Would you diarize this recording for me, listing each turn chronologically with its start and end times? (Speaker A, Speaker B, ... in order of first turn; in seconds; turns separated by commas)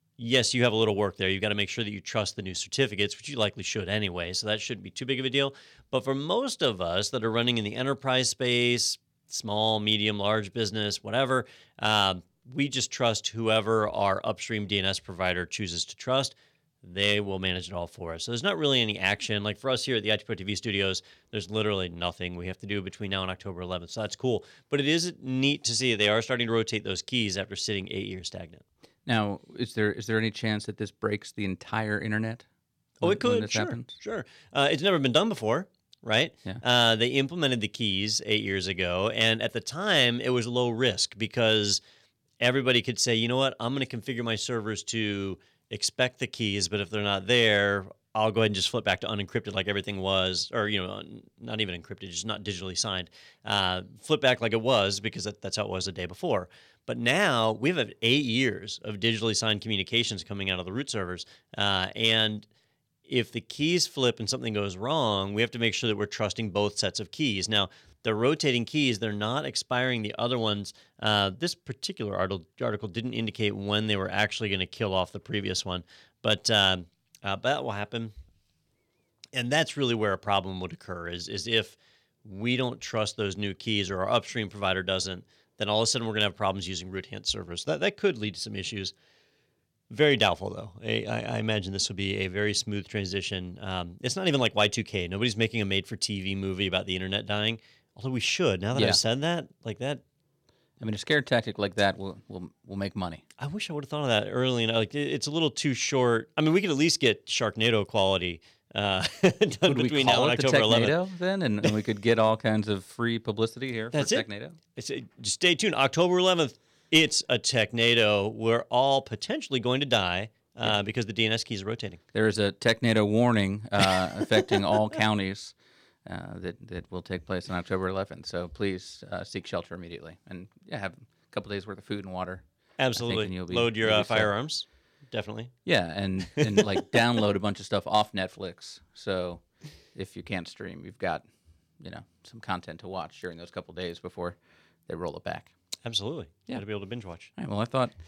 Speaker A: 0.2-28.6, Speaker B: 29.1-32.5, Speaker B: 33.0-33.9, Speaker A: 33.0-41.8, Speaker A: 42.4-62.5, Speaker A: 63.0-78.1, Speaker A: 79.3-88.9, Speaker A: 89.9-100.0, Speaker B: 98.7-99.0, Speaker B: 100.8-103.2, Speaker A: 103.4-111.0, Speaker B: 109.7-114.6, Speaker A: 113.9-122.0, Speaker B: 122.1-125.5, Speaker B: 126.0-132.4, Speaker A: 132.8-135.5, Speaker B: 132.9-134.3, Speaker B: 135.7-139.4, Speaker A: 136.4-136.7, Speaker B: 139.9-141.2, Speaker B: 141.8-145.5, Speaker A: 145.8-147.3, Speaker B: 147.3-147.9